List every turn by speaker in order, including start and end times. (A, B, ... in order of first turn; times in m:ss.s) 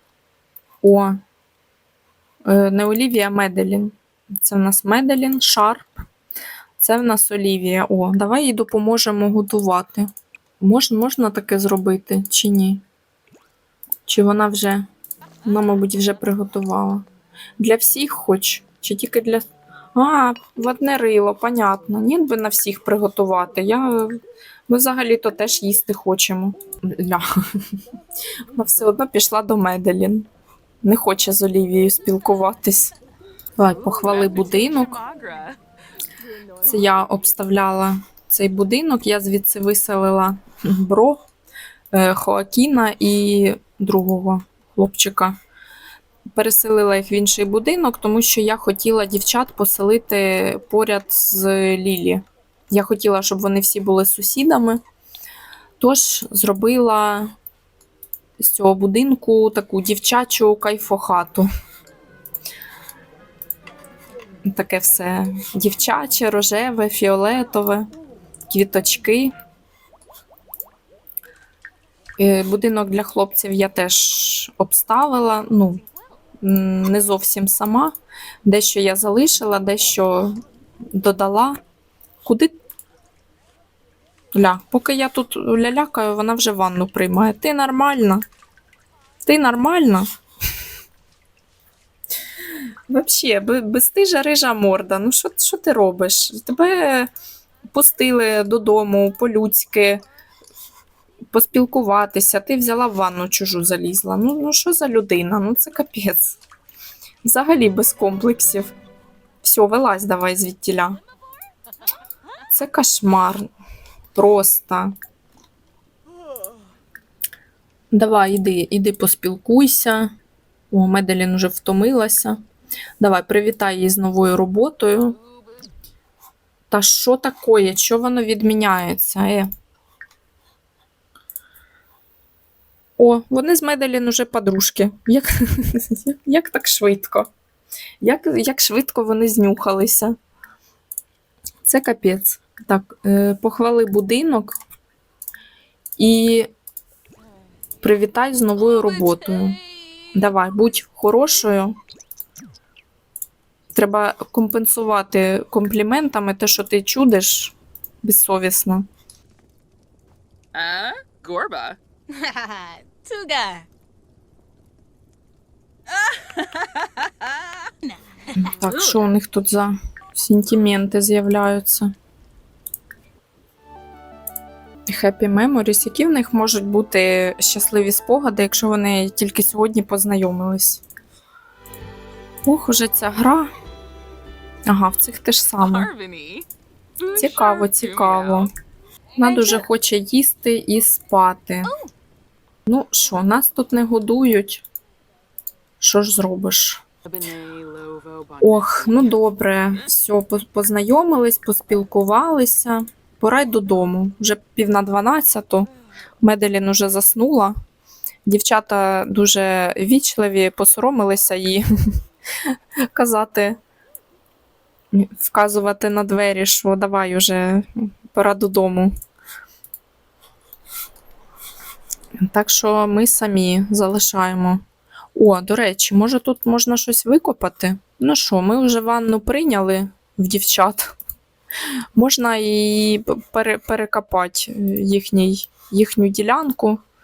0:00.8-0:01.2 A
0:02.4-0:06.0 A
0:06.8-0:12.8 A
0:14.1-0:14.9 A
0:15.4-0:17.0 A
0:17.6-0:27.8 A
0:28.5-0:30.3 A
0:30.8-0:32.9 A
0:33.6-0:35.0 A
0:34.1-0:35.6 B
0:36.6-0:41.2 A
0:41.9-0:45.3 A
0:46.3-0:54.8 A
0:55.8-0:57.3 A
0:58.4-1:01.5 A
1:04.4-1:07.9 A
1:08.5-1:09.3 A
1:12.2-1:15.8 A
1:16.4-1:20.4 A
1:20.9-1:21.6 A
1:22.2-1:22.6 A
1:24.3-1:28.2 A
1:29.2-1:30.1 A
1:32.5-1:37.1 A
1:37.7-1:40.0 A
1:41.3-1:46.4 A
1:47.2-1:48.7 A
1:49.4-1:51.0 A
1:52.5-1:53.5 A
1:54.1-1:54.9 A
1:57.9-2:00.1 A
2:00.7-2:02.4 A
2:03.0-2:05.2 A
2:06.7-2:09.5 A
2:13.0-2:17.3 A
2:18.0-2:20.2 A
2:21.6-2:24.6 A
2:26.0-2:26.5 A
2:27.8-2:29.6 A
2:30.1-2:31.8 A
2:33.7-2:38.9 A
2:40.5-2:41.8 B
2:42.1-2:43.7 C
2:46.4-2:46.6 C
2:48.3-2:51.9 A
2:54.9-3:00.8 A
3:02.4-3:03.5 A
3:04.7-3:05.9 A
3:05.8-3:06.5 B
3:07.1-3:08.5 A
3:09.2-3:11.7 A
3:12.6-3:14.6 A
3:15.8-3:16.8 A
3:17.2-3:18.1 C
3:18.4-3:25.7 A
3:26.2-3:27.5 A
3:28.2-3:33.6 A
3:34.9-3:38.9 A
3:42.2-3:44.6 A
3:45.1-3:50.9 A
3:52.0-3:56.8 A